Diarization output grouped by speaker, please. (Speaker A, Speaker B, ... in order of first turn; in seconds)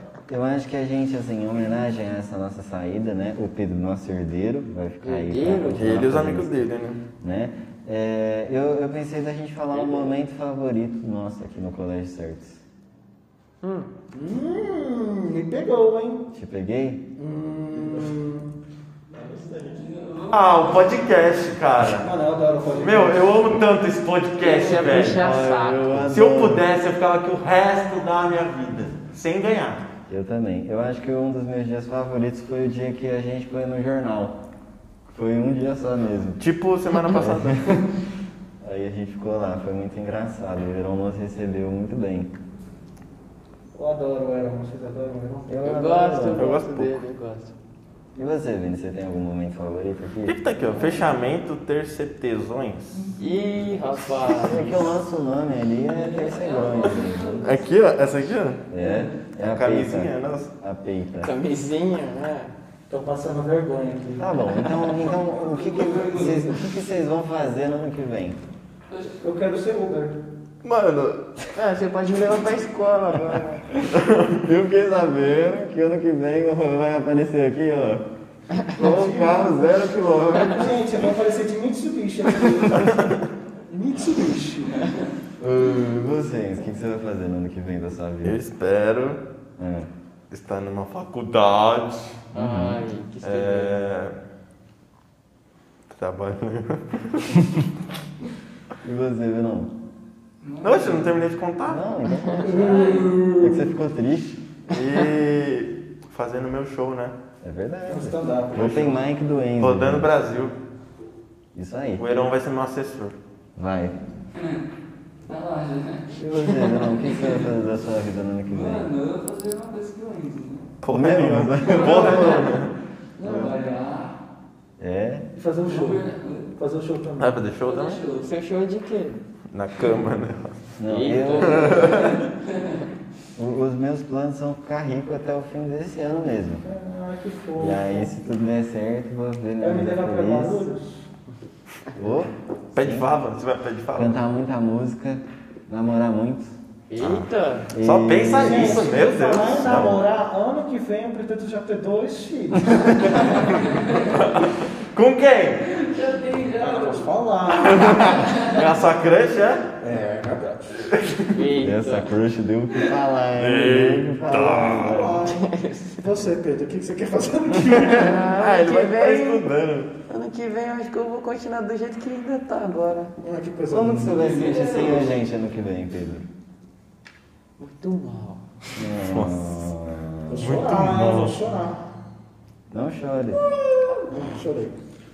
Speaker A: 0.3-6.7, 7.2-12.6, 16.3-17.1, 25.0-26.7, 30.1-34.4, 35.1-36.4, 37.1-38.0, 38.6-42.3, 45.5-46.5, 48.1-50.4, 54.1-57.5, 58.7-61.3, 64.2-68.4, 74.4-78.0, 78.7-80.8, 85.4-88.4, 89.6-89.9, 92.3-92.8, 98.8-99.7, 101.7-104.4, 107.4-110.1, 111.5-112.3, 113.6-114.0, 116.2-118.9, 120.9-122.5, 123.3-123.5, 124.8-125.3, 130.8-131.8, 133.4-136.6, 137.6-140.7, 141.9-143.1, 143.9-148.9, 149.6-150.0, 161.6-165.3, 173.7-176.3, 178.8-180.6, 182.7-183.5
Speaker B: 5.0-5.9, 9.7-10.1, 13.6-13.9, 24.4-26.1, 45.6-47.5, 53.2-54.9, 61.2-62.5, 71.5-73.7, 92.3-93.8, 128.1-129.2, 130.9-132.2, 146.9-147.7, 161.3-162.1, 165.3-166.0, 167.9-169.5, 170.1-173.1, 174.6-174.9, 177.6-178.4
Speaker C: 5.8-7.0, 17.7-18.1, 19.4-22.1, 22.8-25.2, 26.1-29.8, 36.4-37.8, 46.4-47.0, 50.2-53.1, 54.4-54.7, 57.4-58.6, 59.5-60.5, 70.6-71.2, 73.9-74.4, 82.5-83.1, 88.2-89.2, 90.3-92.2, 93.2-94.2, 95.9-97.7, 100.6-101.8, 104.7-107.2, 108.5-109.0, 109.6-110.5, 112.0-113.2, 120.8-122.7, 127.2-128.0, 129.5-130.6, 131.4-132.2, 142.8-144.2, 147.8-149.9, 153.3-155.8, 157.5-159.7, 160.9-161.2, 163.3-165.1, 167.9-169.9, 179.0-179.7, 180.4-181.4
Speaker D: 14.1-16.3, 17.2-18.5, 21.9-23.5, 43.7-45.5, 62.9-64.3, 69.2-70.2, 78.8-79.7, 80.5-84.9, 102.4-103.8, 107.9-108.8, 123.2-123.7, 125.3-127.5, 136.6-138.1, 139.6-141.1, 148.3-153.5, 156.5-158.3, 159.8-160.9, 164.8-165.5, 166.0-168.2, 173.2-174.7, 180.3-181.8, 183.7-184.8
Speaker E: 19.8-20.3, 53.0-53.2, 55.9-57.4, 58.8-59.1, 65.5-66.5, 68.9-69.2, 100.4-101.1, 102.6-103.0, 114.4-114.6, 115.3-117.4, 118.5-120.7, 121.7-122.4, 123.3-124.1, 125.6-126.5, 127.6-128.3, 155.8-157.0, 158.3-158.6, 174.2-175.0